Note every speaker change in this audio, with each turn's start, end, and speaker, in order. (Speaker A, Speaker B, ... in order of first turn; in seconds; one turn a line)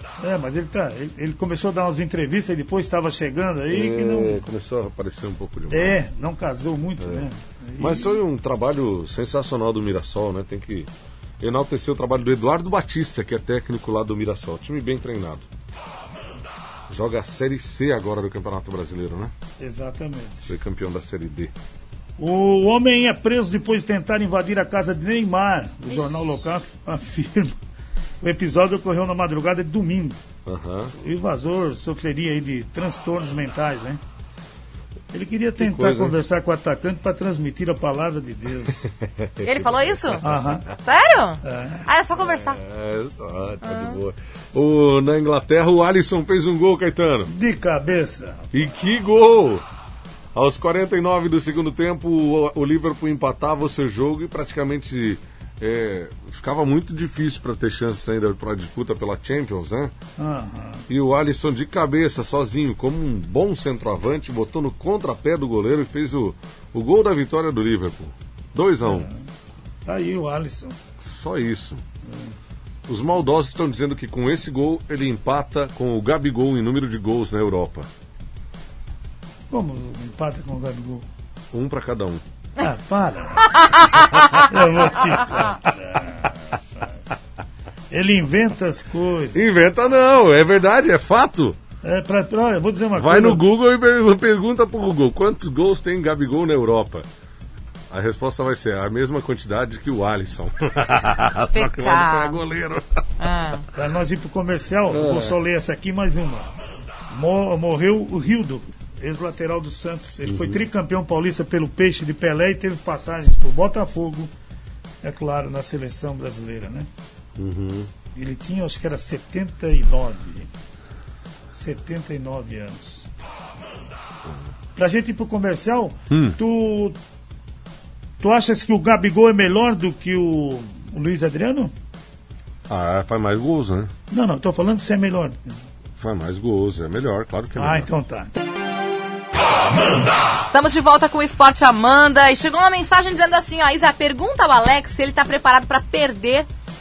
Speaker A: 0.2-4.4
Speaker B: 3.7-6.0
Speaker A: 5.7-8.2
Speaker B: 7.0-7.3
Speaker B: 7.8-15.4
Speaker B: 16.9-19.3
Speaker A: 19.6-20.5
Speaker B: 20.5-21.5
Speaker A: 22.2-27.6
Speaker A: 28.2-30.2
Speaker B: 30.4-30.9
Speaker A: 30.9-34.0
Speaker A: 35.1-38.8
Speaker B: 35.6-36.2
Speaker B: 38.8-40.7
Speaker C: 39.4-40.2
Speaker A: 40.2-40.6
Speaker C: 40.8-42.6
Speaker A: 41.4-41.9
Speaker B: 42.1-47.3
Speaker C: 43.6-44.0
Speaker A: 47.3-48.5
Speaker B: 48.5-49.6
Speaker B: 50.3-59.9
Speaker A: 60.2-60.8
Speaker B: 60.9-69.1
Speaker A: 68.8-69.2
Speaker A: 69.8-70.8
Speaker B: 71.0-71.8
Speaker A: 72.0-72.3
Speaker B: 72.8-77.9
Speaker A: 79.5-81.0
Speaker B: 81.5-82.2
Speaker A: 82.6-83.5
Speaker C: 83.5-84.5
Speaker A: 84.4-86.4
Speaker A: 87.9-89.4
Speaker B: 89.3-91.6
Speaker A: 91.8-93.4
Speaker B: 92.9-97.1
Speaker B: 97.9-103.0
Speaker C: 101.5-102.4
Speaker C: 103.2-103.7
Speaker A: 103.8-106.5
Speaker B: 104.9-105.4
Speaker A: 107.1-114.3
Speaker B: 110.2-110.6
Speaker A: 115.0-116.9
Speaker B: 117.4-117.9
Speaker A: 118.1-120.5
Speaker A: 121.5-123.1
Speaker A: 124.8-127.0
Speaker B: 126.1-126.4
Speaker A: 128.2-131.7
Speaker B: 132.7-133.9
Speaker A: 134.1-135.6
Speaker B: 136.0-137.9
Speaker A: 137.6-138.3
Speaker C: 140.5-146.5